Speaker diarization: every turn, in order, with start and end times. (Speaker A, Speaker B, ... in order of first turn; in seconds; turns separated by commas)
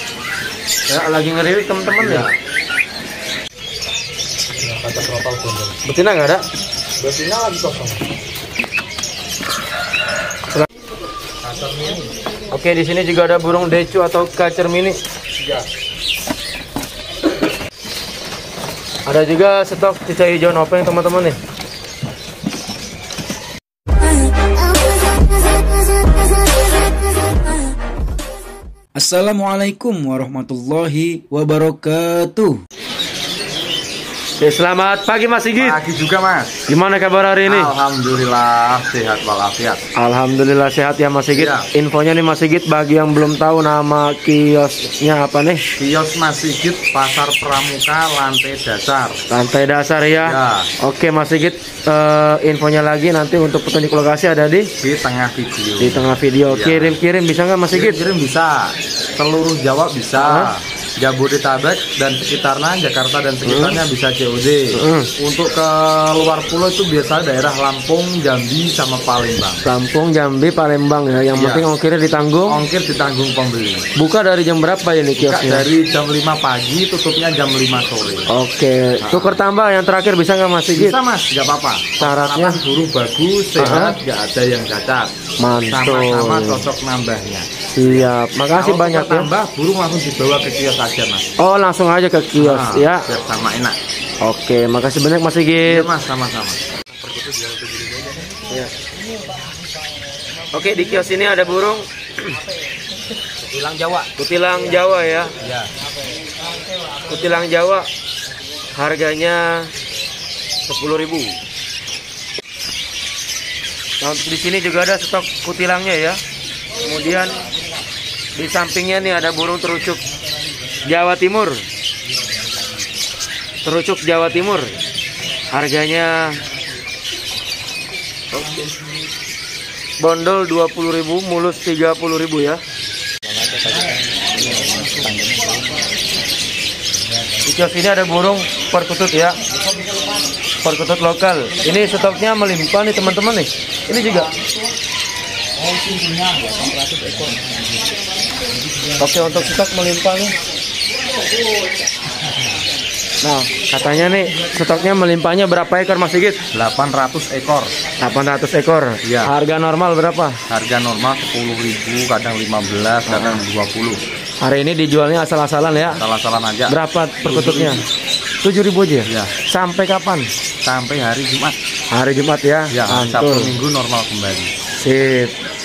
Speaker A: 0.9-2.3, Speaker B: 2.0-2.3, Speaker B: 4.6-5.7, Speaker A: 5.8-6.4, Speaker B: 7.0-8.0, Speaker B: 11.4-12.1, Speaker A: 12.5-15.0, Speaker B: 15.4-15.6, Speaker A: 19.1-21.4, Speaker C: 28.9-32.6, Speaker A: 34.4-35.8, Speaker B: 35.5-36.5, Speaker A: 36.7-37.7, Speaker B: 37.4-39.8, Speaker A: 40.0-45.6, Speaker B: 41.3-41.7, Speaker B: 45.8-49.2, Speaker A: 49.3-54.7, Speaker B: 50.2-50.7, Speaker B: 54.8-57.0, Speaker A: 55.8-58.0, Speaker B: 57.7-69.6, Speaker A: 60.2-60.5, Speaker A: 63.5-63.8, Speaker A: 64.7-65.1, Speaker A: 69.6-72.6, Speaker B: 71.3-71.7, Speaker B: 72.5-73.8, Speaker A: 74.0-75.7, Speaker B: 75.2-78.3, Speaker A: 78.3-81.0, Speaker B: 79.0-79.4, Speaker B: 80.7-85.1, Speaker A: 82.0-82.6, Speaker A: 83.6-84.0, Speaker A: 85.4-86.6, Speaker B: 85.7-91.2, Speaker A: 87.7-89.3, Speaker A: 91.4-93.0, Speaker B: 92.4-93.8, Speaker A: 94.2-95.9, Speaker B: 95.6-98.3, Speaker A: 100.5-102.4, Speaker B: 103.5-104.1, Speaker A: 104.2-105.3, Speaker B: 105.4-105.7, Speaker A: 107.1-107.9, Speaker A: 108.7-109.7, Speaker A: 110.7-111.3, Speaker A: 114.0-116.2, Speaker A: 116.8-117.4, Speaker A: 118.3-120.0, Speaker A: 120.8-121.6, Speaker A: 123.6-124.7, Speaker A: 125.5-126.4, Speaker A: 128.3-128.6, Speaker A: 130.0-132.6, Speaker B: 133.2-135.8, Speaker A: 137.4-139.4, Speaker A: 140.6-144.3, Speaker B: 145.7-147.6, Speaker A: 149.0-150.3, Speaker A: 153.2-156.4, Speaker B: 156.5-157.7, Speaker A: 158.0-160.4, Speaker B: 159.0-159.3, Speaker B: 160.5-164.0, Speaker A: 163.1-163.4, Speaker A: 164.4-166.0, Speaker B: 165.9-167.8, Speaker A: 166.7-167.8, Speaker A: 168.4-170.3, Speaker B: 169.1-169.3, Speaker B: 170.6-171.6, Speaker A: 171.9-173.5, Speaker B: 172.7-174.5, Speaker A: 174.8-175.3